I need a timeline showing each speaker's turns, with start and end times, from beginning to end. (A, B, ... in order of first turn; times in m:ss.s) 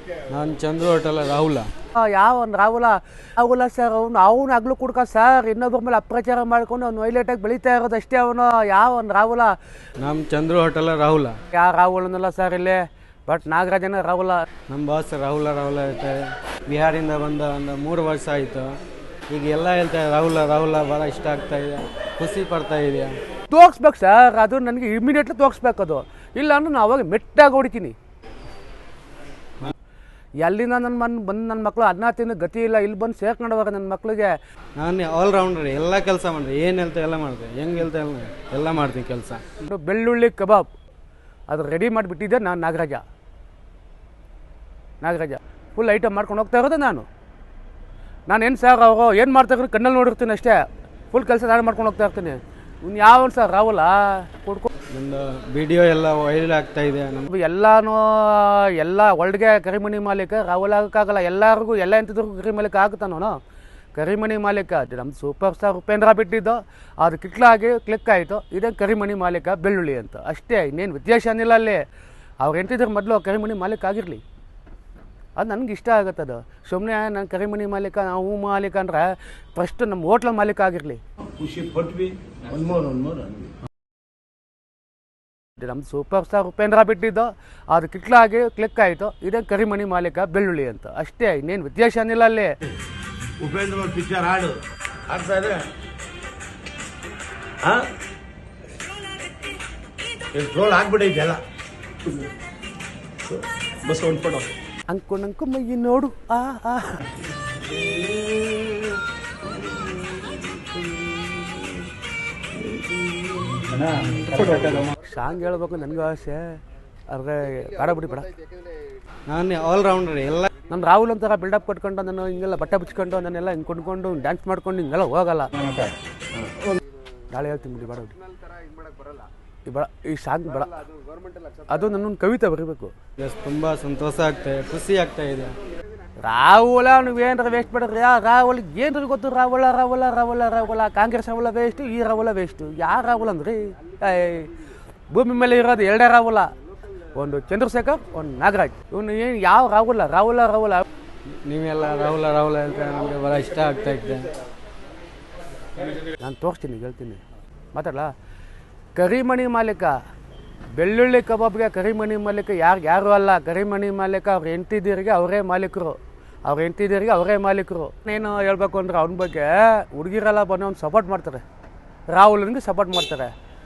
0:00.3-0:01.7 A
0:02.0-0:09.6 B
0:10.0-0:11.4 A
0:11.5-0:14.4 B
0:14.7-0:18.8 A
0:19.3-0:23.1 A
0:23.5-0:28.0 B
0:30.4-0:34.4 B
0:34.8-0:39.4 A
0:39.6-0:40.7 B
0:41.5-0:43.0 B
0:45.0-0:47.1 B
0:48.3-0:54.7 B
0:54.9-0:57.3 A
0:57.3-1:03.4 B
1:03.9-1:11.8 B
1:12.4-1:14.2 B
1:15.4-1:21.0 B
1:21.2-1:23.6 C
1:25.6-1:32.5 B
1:33.4-1:35.7 C
1:37.6-1:37.9 C
1:40.3-1:41.4 C
1:43.2-1:44.5 C
1:44.9-1:47.1 B
1:47.7-1:49.0 B
1:49.6-1:51.8 B
1:52.7-1:56.6 B
1:57.1-1:58.6 B
1:59.3-2:00.5 A
2:00.7-2:05.8 B
2:07.3-2:08.2 B
2:09.0-2:12.9 B
2:13.2-2:15.5 A
2:16.2-2:24.5 B
2:25.1-2:26.5 B
2:27.1-2:30.8 B
2:31.4-2:34.3 A
2:36.2-2:37.2 B
2:37.7-2:38.1 B
2:38.9-2:40.0 B
2:40.7-2:51.4 B
2:52.1-2:53.3 B